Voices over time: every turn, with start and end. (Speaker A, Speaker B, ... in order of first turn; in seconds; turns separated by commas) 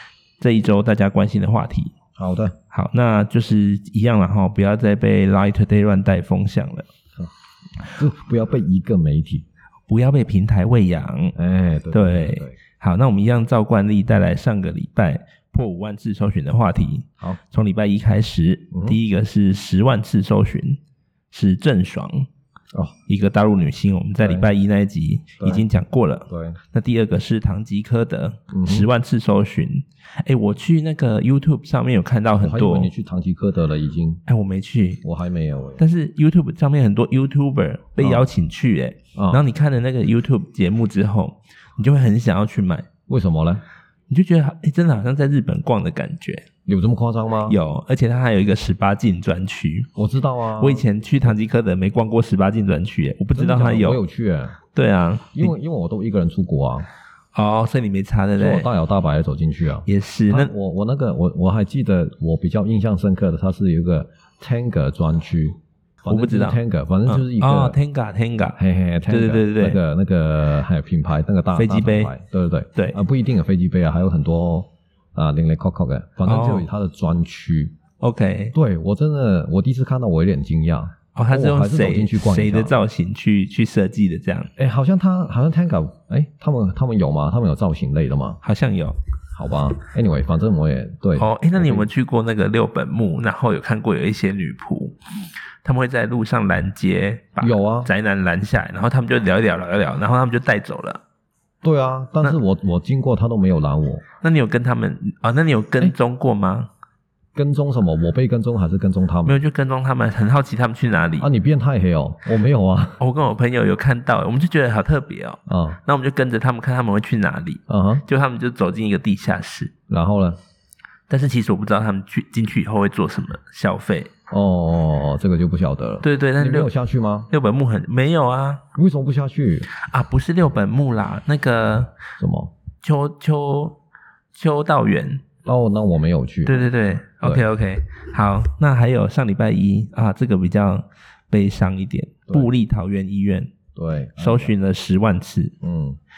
Speaker A: 0.4-1.9, Speaker B: 2.2-2.5, Speaker A: 2.7-6.9, Speaker B: 7.2-9.4, Speaker A: 9.9-11.3, Speaker B: 11.3-12.6, Speaker A: 11.9-20.8, Speaker B: 18.7-19.0, Speaker A: 21.3-22.3, Speaker A: 23.1-32.9, Speaker B: 24.2-24.5, Speaker B: 26.3-26.6, Speaker B: 28.5-28.9, Speaker B: 32.4-34.2, Speaker A: 34.3-35.0, Speaker B: 35.0-35.8, Speaker A: 35.8-42.9, Speaker B: 38.0-38.3, Speaker B: 39.1-39.4, Speaker B: 43.1-43.6, Speaker A: 44.1-46.5, Speaker B: 46.7-47.5, Speaker A: 47.5-49.9, Speaker B: 50.0-51.3, Speaker A: 50.6-54.0, Speaker B: 53.3-54.6, Speaker A: 54.7-55.5, Speaker B: 55.3-56.9, Speaker A: 57.3-58.7, Speaker B: 58.4-67.8, Speaker A: 59.9-60.5, Speaker A: 66.0-69.8, Speaker B: 68.6-77.7, Speaker A: 71.5-72.1, Speaker A: 76.2-76.7, Speaker A: 78.0-78.5, Speaker B: 78.5-82.8, Speaker A: 81.1-84.5, Speaker B: 84.5-88.4, Speaker A: 88.4-89.0, Speaker B: 89.3-91.9, Speaker A: 91.2-95.0, Speaker A: 95.6-101.0, Speaker B: 97.4-97.9, Speaker B: 101.6-104.0, Speaker A: 104.2-106.7, Speaker B: 107.3-109.4, Speaker A: 109.3-111.3, Speaker B: 111.2-113.0, Speaker A: 113.0-119.7, Speaker B: 115.5-115.8, Speaker B: 117.7-118.0, Speaker B: 119.9-120.4, Speaker A: 121.1-124.1, Speaker B: 124.3-127.3, Speaker A: 126.0-126.7, Speaker A: 127.3-128.6, Speaker B: 128.7-129.7, Speaker A: 129.7-131.9, Speaker B: 132.2-132.5, Speaker A: 132.8-133.8, Speaker A: 134.3-135.2, Speaker B: 135.4-136.7, Speaker A: 136.4-143.5, Speaker B: 143.8-144.5, Speaker A: 144.2-145.6, Speaker B: 145.6-146.0